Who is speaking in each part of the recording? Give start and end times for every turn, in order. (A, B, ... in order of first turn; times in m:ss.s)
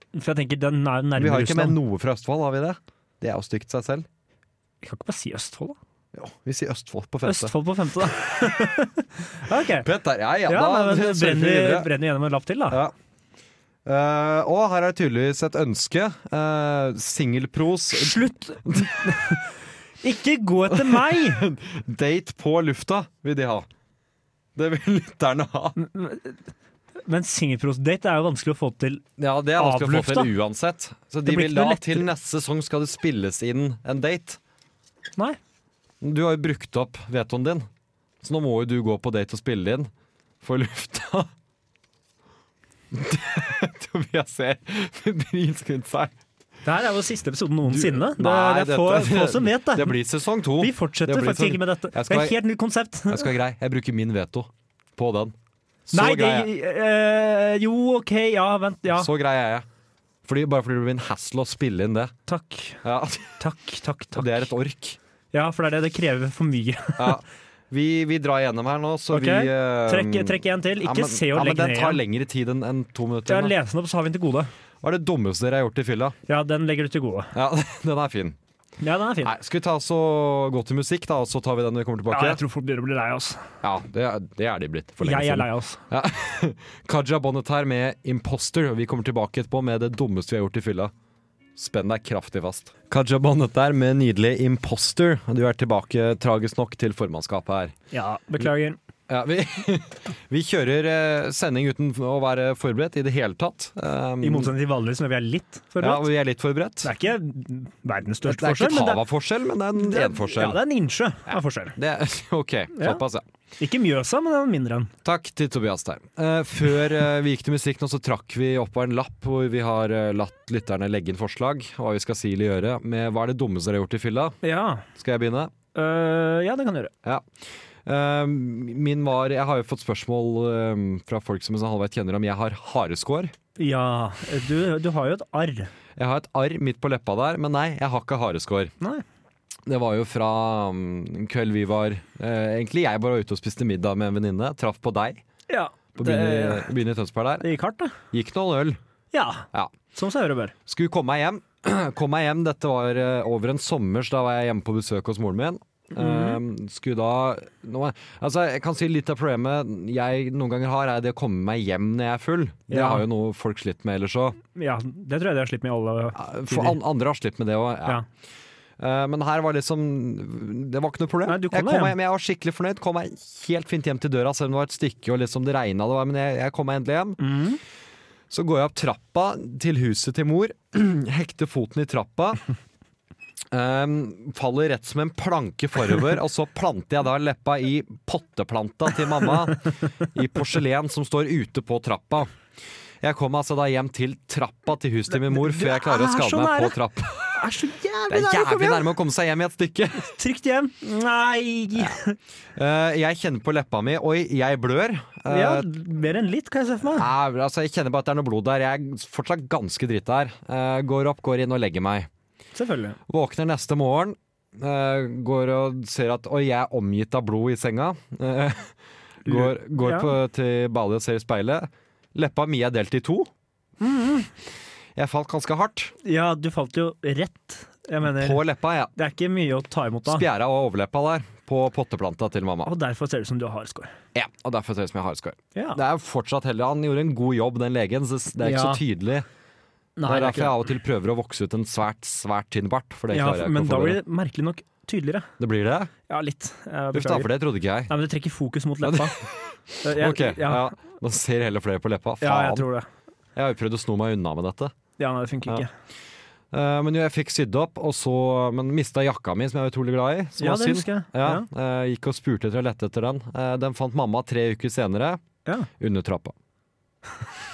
0:00.2-0:01.8 A
0:01.2-0:04.1 B
0:04.8-0:05.8 A
0:06.1-0:07.5 B
0:07.2-0:09.9 A
0:09.8-0:11.9 B
0:10.5-0:12.8 A
0:13.8-0:18.9 B
0:17.9-0:21.4 A
0:20.7-0:23.7 B
0:24.6-0:25.8 B
0:25.8-0:26.4 A
0:27.1-0:29.0 A
0:29.2-0:34.4 B
0:29.6-0:30.3 A
0:31.3-0:32.1 A
0:36.0-0:37.7 B
0:38.2-0:39.9 B
0:40.4-0:41.3 B
0:42.9-0:46.2 B
0:46.6-0:50.0 A
0:47.7-0:52.4 B
0:50.6-0:53.3 A
0:53.1-0:55.4 B
0:55.9-0:56.5 B
0:55.9-0:59.1 A
0:59.0-0:59.7 B
1:00.2-1:02.1 B
1:02.3-1:02.8 A
1:02.8-1:03.4 B
1:03.4-1:04.5 A
1:04.2-1:05.0 B
1:05.3-1:07.2 A
1:07.0-1:13.6 B
1:09.1-1:12.0 A
1:13.3-1:14.5 A
1:14.8-1:16.2 B
1:16.3-1:17.3 A
1:17.3-1:18.4 B
1:18.8-1:19.4 A
1:19.2-1:22.4 B
1:22.1-1:23.5 A
1:23.6-1:30.9 B
1:25.0-1:25.8 A
1:31.6-1:37.7 B
1:37.9-1:38.8 A
1:39.1-1:44.5 B
1:44.2-1:46.1 A
1:45.8-1:46.9 B
1:46.8-1:49.0 A
1:48.2-1:50.6 B
1:49.8-1:51.8 A
1:51.3-1:53.2 B
1:52.7-1:53.0 A
1:53.6-1:54.9 A
1:55.0-2:04.4 B
2:04.4-2:04.9 A
2:05.0-2:05.5 B
2:05.8-2:06.9 A
2:07.8-2:13.3 B
2:13.6-2:15.7 A
2:16.0-2:18.7 B
2:19.7-2:25.2 B
2:25.5-2:26.7 A
2:26.0-2:27.5 B
2:27.4-2:28.0 A
2:28.1-2:28.8 B
2:29.1-2:30.5 A
2:30.7-2:44.4 B
2:35.9-2:36.4 A
2:42.7-2:43.1 A
2:44.6-2:46.8 A
2:46.2-2:48.0 B
2:48.8-2:57.2 B
2:51.3-2:52.0 A
2:57.2-2:57.6 A
2:58.3-3:02.4 B
3:03.5-3:12.3 B
3:13.0-3:17.4 B
3:15.1-3:16.8 A
3:17.3-3:18.9 A
3:18.1-3:20.1 B
3:20.0-3:22.2 A
3:22.6-3:25.7 B
3:25.3-3:27.1 A
3:26.9-3:32.1 B
3:32.6-3:33.0 A
3:33.1-3:38.8 B
3:39.3-3:40.1 A
3:39.3-3:43.3 B
3:43.8-3:44.3 A
3:45.0-3:45.9 B
3:46.0-3:48.4 A
3:48.0-3:48.9 B
3:49.0-3:50.2 A
3:50.1-3:52.7 B
3:52.6-3:54.0 A
3:54.2-3:59.3 B
3:55.6-3:55.8 A
3:58.4-3:58.8 A
4:00.0-4:00.6 A
4:00.1-4:04.0 B
4:03.1-4:05.3 A
4:05.4-4:05.9 B
4:06.1-4:07.3 A
4:06.9-4:07.9 B
4:07.9-4:09.2 A
4:08.8-4:12.7 B
4:09.8-4:10.7 A
4:12.2-4:12.9 A
4:13.4-4:14.7 B
4:15.0-4:15.7 A
4:16.5-4:25.2 B
4:20.4-4:21.5 A
4:25.8-4:26.4 B